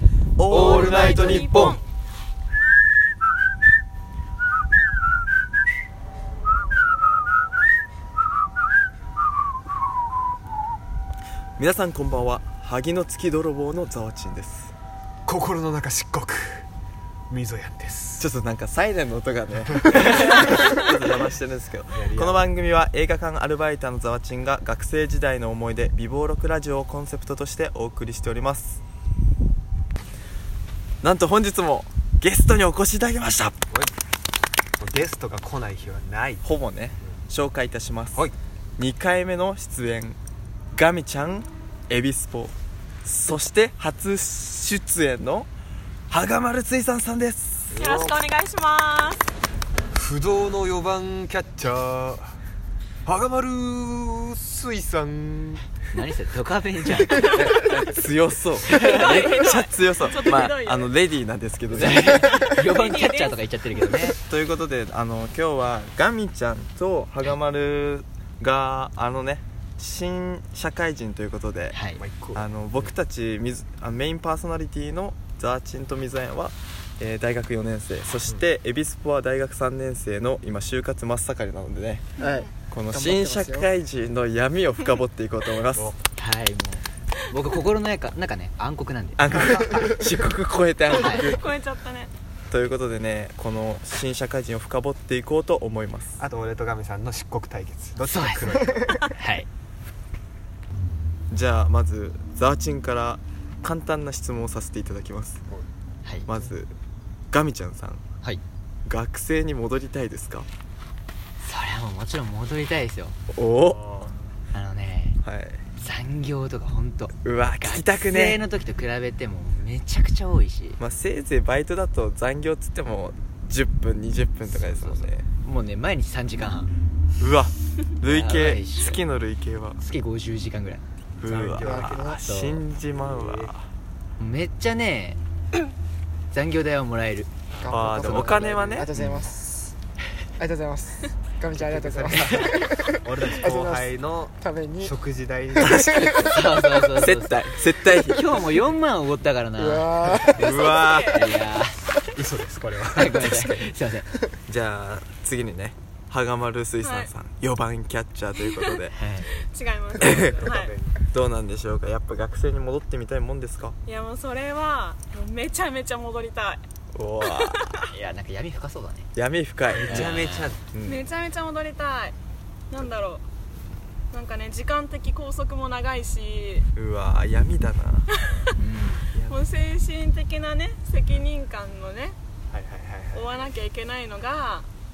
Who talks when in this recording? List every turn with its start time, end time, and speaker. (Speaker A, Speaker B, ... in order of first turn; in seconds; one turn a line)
Speaker A: 0.4-1.8
Speaker B: 0.5-1.8
Speaker C: 0.5-1.7
Speaker A: 11.6-14.7
Speaker C: 15.3-16.7
Speaker C: 17.3-18.3
Speaker A: 18.2-28.8
Speaker C: 21.9-22.5
Speaker A: 31.0-33.5
Speaker C: 34.8-36.5
Speaker A: 36.4-40.2
Speaker A: 40.7-45.5
Speaker A: 46.1-47.7
Speaker C: 47.7-48.2
Speaker B: 47.8-49.2
Speaker C: 49.9-52.3
Speaker C: 53.0-55.6
Speaker D: 55.9-57.5
Speaker A: 57.4-62.3
Speaker D: 58.6-59.4
Speaker B: 58.8-60.9
Speaker D: 61.7-64.2
Speaker B: 62.2-63.4
Speaker A: 64.2-71.8
Speaker D: 71.7-72.0
Speaker C: 72.0-72.9
Speaker A: 72.3-82.1
Speaker B: 82.2-82.5
Speaker E: 82.2-83.7
Speaker A: 82.7-85.9
Speaker D: 86.2-89.2
Speaker A: 89.2-91.5
Speaker C: 89.3-89.8
Speaker D: 90.9-91.3
Speaker B: 91.0-92.1
Speaker A: 92.5-96.2
Speaker C: 96.2-99.0
Speaker D: 98.0-99.5
Speaker A: 101.3-105.4
Speaker A: 106.3-106.7
Speaker A: 107.3-108.0
Speaker A: 108.9-110.5
Speaker D: 111.4-113.2
Speaker A: 113.3-114.1
Speaker C: 113.8-114.1
Speaker D: 114.5-115.2
Speaker A: 115.2-115.6
Speaker D: 115.8-120.8
Speaker A: 117.2-118.4
Speaker A: 120.8-125.3
Speaker D: 124.5-126.7
Speaker A: 127.2-129.8
Speaker D: 128.0-129.0
Speaker D: 129.8-130.9
Speaker A: 131.2-133.7
Speaker C: 131.2-132.2
Speaker E: 131.6-132.2
Speaker D: 132.0-132.6
Speaker C: 132.9-133.5
Speaker D: 134.2-135.2
Speaker D: 136.3-137.3
Speaker E: 137.6-139.8
Speaker A: 137.7-138.9
Speaker D: 137.8-138.3
Speaker D: 138.9-139.3
Speaker E: 140.4-144.9
Speaker C: 141.5-146.0
Speaker D: 142.1-142.5
Speaker E: 145.6-146.7
Speaker A: 145.6-146.1
Speaker D: 146.2-147.4
Speaker A: 146.9-148.5
Speaker D: 148.1-149.9
Speaker E: 149.6-150.4
Speaker A: 150.4-151.2
Speaker B: 150.4-151.3
Speaker D: 151.0-151.8
Speaker C: 152.1-153.3
Speaker D: 152.9-154.1
Speaker A: 153.3-153.7
Speaker A: 154.5-158.9
Speaker B: 156.8-157.1
Speaker B: 158.4-158.8
Speaker D: 158.9-159.3
Speaker B: 159.4-160.7
Speaker A: 160.0-160.5
Speaker C: 160.0-161.0
Speaker A: 161.1-163.8
Speaker B: 163.9-166.6
Speaker A: 166.9-167.7
Speaker B: 167.2-167.8
Speaker D: 167.9-169.1
Speaker A: 169.2-170.2
Speaker C: 169.7-170.6
Speaker D: 169.9-170.5
Speaker A: 170.7-171.1
Speaker B: 170.8-172.2
Speaker B: 172.7-173.2
Speaker B: 174.1-176.7
Speaker A: 176.8-178.1
Speaker B: 178.2-178.5
Speaker D: 178.6-179.1
Speaker B: 179.3-182.2
Speaker C: 182.5-183.4
Speaker B: 183.1-184.7